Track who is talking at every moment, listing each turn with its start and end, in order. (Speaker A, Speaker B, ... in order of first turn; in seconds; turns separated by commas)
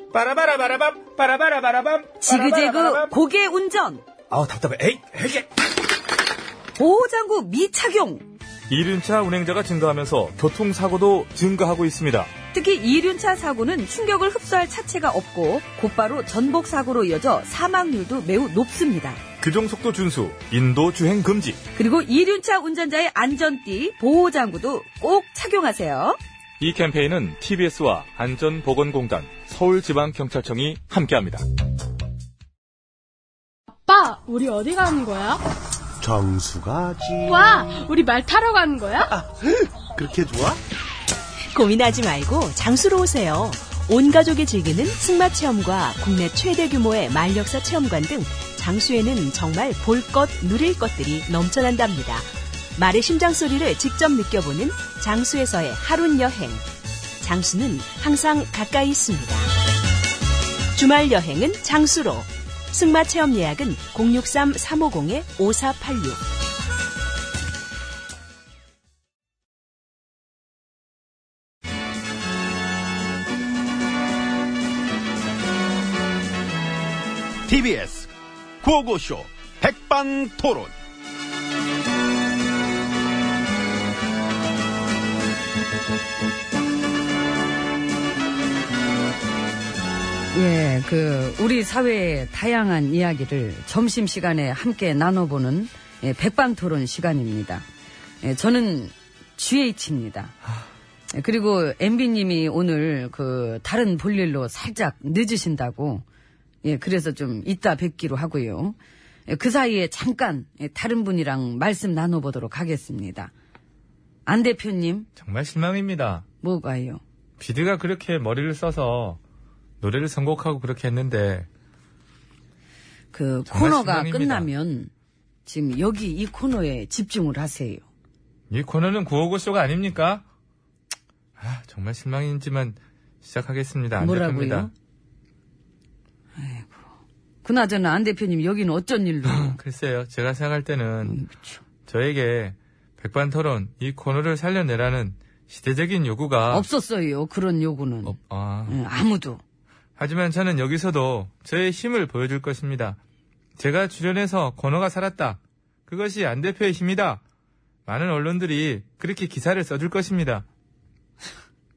Speaker A: 0.1-3.1, Speaker B: 2.2-4.0, Speaker C: 4.3-5.4, Speaker B: 6.7-8.2, Speaker C: 8.7-12.3, Speaker B: 12.5-19.2, Speaker C: 19.4-21.6, Speaker B: 21.7-26.2, Speaker C: 26.6-31.4, Speaker D: 33.9-35.4, Speaker D: 37.2-39.1, Speaker E: 41.5-56.6, Speaker E: 57.2-59.5, Speaker E: 60.8-66.2, Speaker F: 77.5-78.1, Speaker F: 78.6-80.7, Speaker B: 90.3-97.7, Speaker B: 98.2-100.3, Speaker B: 101.1-106.0, Speaker B: 106.6-108.8, Speaker B: 109.3-113.3, Speaker B: 114.2-115.1, Speaker A: 115.2-116.2, Speaker B: 116.4-117.0, Speaker A: 117.4-119.2, Speaker A: 119.8-121.5, Speaker B: 123.1-124.9, Speaker A: 123.5-124.5, Speaker B: 125.5-127.8, Speaker A: 128.5-130.2, Speaker A: 131.4-134.7, Speaker B: 134.0-134.7, Speaker B: 136.3-136.8, Speaker B: 137.4-139.6, Speaker A: 139.2-141.2, Speaker B: 141.0-141.6, Speaker A: 141.8-146.7, Speaker B: 146.5-149.4, Speaker A: 148.0-148.8, Speaker A: 150.0-153.0, Speaker A: 153.6-157.2, Speaker A: 157.8-160.4